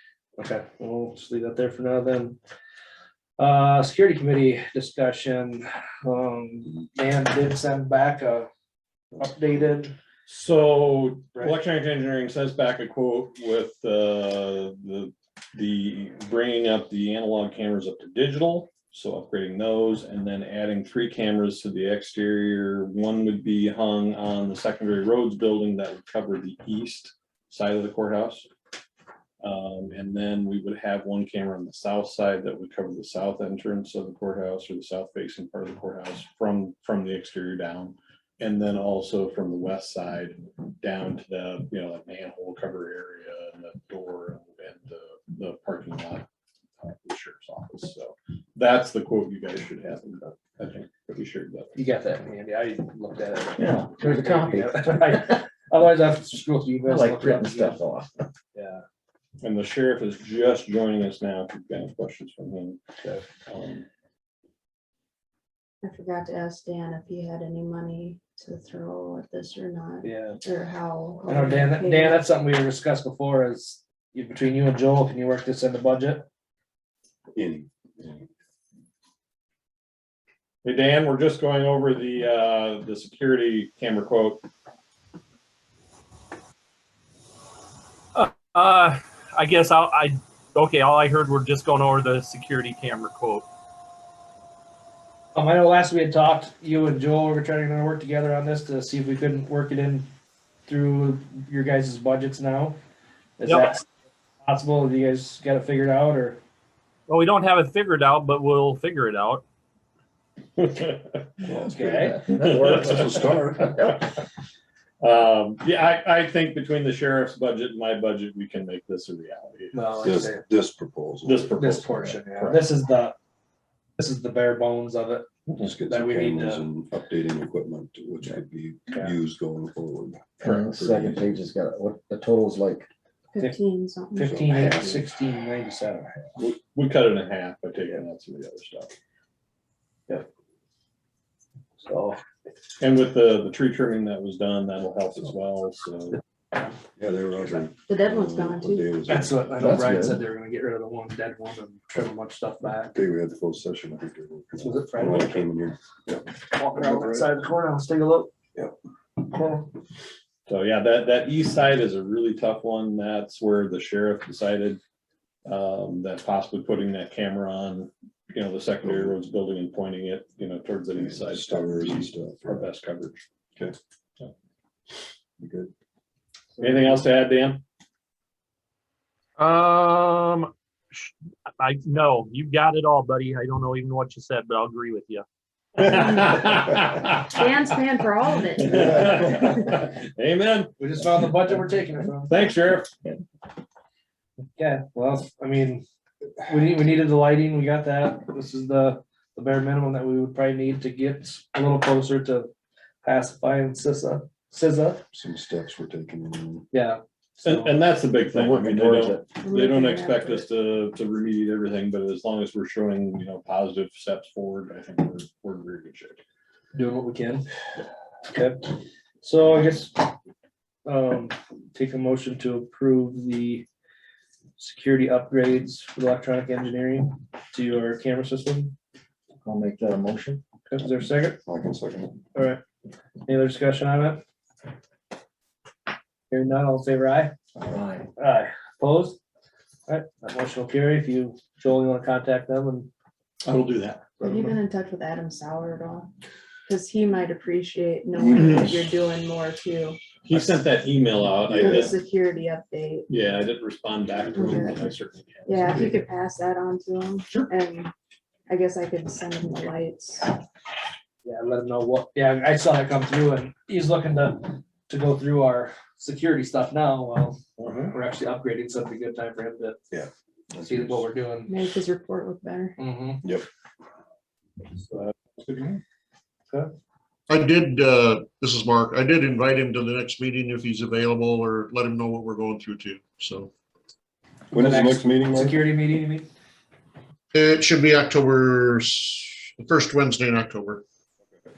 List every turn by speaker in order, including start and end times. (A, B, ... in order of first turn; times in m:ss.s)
0:00.4-0:02.4 A
0:03.4-0:08.5 A
0:09.2-0:09.9 A
0:10.3-0:28.5 B
0:29.4-0:46.3 B
0:46.8-0:51.8 B
0:51.7-0:57.8 A
0:53.6-0:55.4 C
0:56.8-0:58.3 C
0:58.5-0:58.8 A
0:59.4-1:02.8 B
1:03.3-1:03.8 B
1:05.8-1:12.2 D
1:10.0-1:10.4 A
1:11.3-1:16.2 A
1:17.3-1:18.2 E
1:20.6-1:24.5 B
1:28.1-1:33.4 F
1:35.3-1:40.1 A
1:40.6-1:42.8 A
1:43.4-1:43.8 A
1:43.4-1:43.7 F
1:44.4-1:46.4 A
1:47.1-1:49.4 F
1:50.6-1:51.4 B
1:51.4-1:53.8 E
1:51.5-1:52.2 A
1:52.2-1:53.9 C
1:52.3-1:54.1 B
1:55.0-1:59.8 B
1:59.7-2:00.4 A
2:00.0-2:01.6 E
2:01.2-2:02.7 B
2:01.5-2:03.2 A
2:04.0-2:05.2 A
2:05.6-2:11.3 E
2:05.8-2:06.6 A
2:10.4-2:12.9 C
2:13.3-2:14.6 D
2:14.1-2:16.1 A
2:14.2-2:15.0 E
2:16.4-2:18.9 B
2:21.8-2:22.2 A
2:22.8-2:26.2 B
2:27.0-2:30.0 E
2:27.9-2:28.9 D
2:29.1-2:33.0 A
2:29.6-2:30.2 C
2:32.9-2:36.2 E
2:34.6-2:35.5 A
2:36.5-2:38.3 A
2:36.8-2:37.3 E
2:39.3-2:39.6 E
2:40.5-2:44.8 B
2:45.4-2:53.2 B
2:48.8-2:49.2 E
2:51.0-2:52.7 E
2:55.4-2:55.7 E
2:56.6-2:57.6 B
2:59.4-3:05.2 F
3:05.8-3:07.5 B
3:07.3-3:09.7 D
3:08.3-3:11.6 B
3:10.8-3:12.3 A
3:12.3-3:13.0 B
3:14.6-3:15.8 A
3:16.4-3:22.5 A
3:23.0-3:25.0 A
3:25.1-3:26.7 E
3:26.7-3:27.7 A
3:27.4-3:36.2 B
3:28.3-3:29.2 C
3:29.3-3:30.4 D
3:36.7-3:37.4 A
3:38.3-3:40.1 A
3:40.8-3:43.6 A
3:44.6-3:48.7 A
3:49.4-3:50.4 C
3:50.6-3:51.4 A
3:51.4-3:52.2 E
3:52.3-3:52.6 A
3:53.2-3:54.2 A
3:56.3-3:57.3 A
3:57.6-3:58.0 C
3:58.2-3:59.2 A
3:59.9-4:02.9 A
4:03.4-4:04.6 B
4:04.2-4:06.1 D
4:06.7-4:10.0 D
4:08.2-4:08.7 C
4:08.3-4:08.8 B
4:10.2-4:12.0 B
4:11.5-4:11.9 E
4:11.5-4:13.1 D
4:13.1-4:16.1 B
4:14.3-4:14.8 D
4:15.5-4:17.9 D
4:17.2-4:17.5 B
4:18.5-4:20.4 D
4:21.2-4:29.8 A
4:27.6-4:27.9 B
4:29.9-4:31.0 E
4:30.6-4:31.6 A
4:31.5-4:32.8 D
4:32.8-4:33.2 A
4:34.9-4:35.8 B
4:37.3-4:43.5 G
4:44.5-4:45.6 E
4:44.5-4:46.3 A
4:47.3-4:50.8 G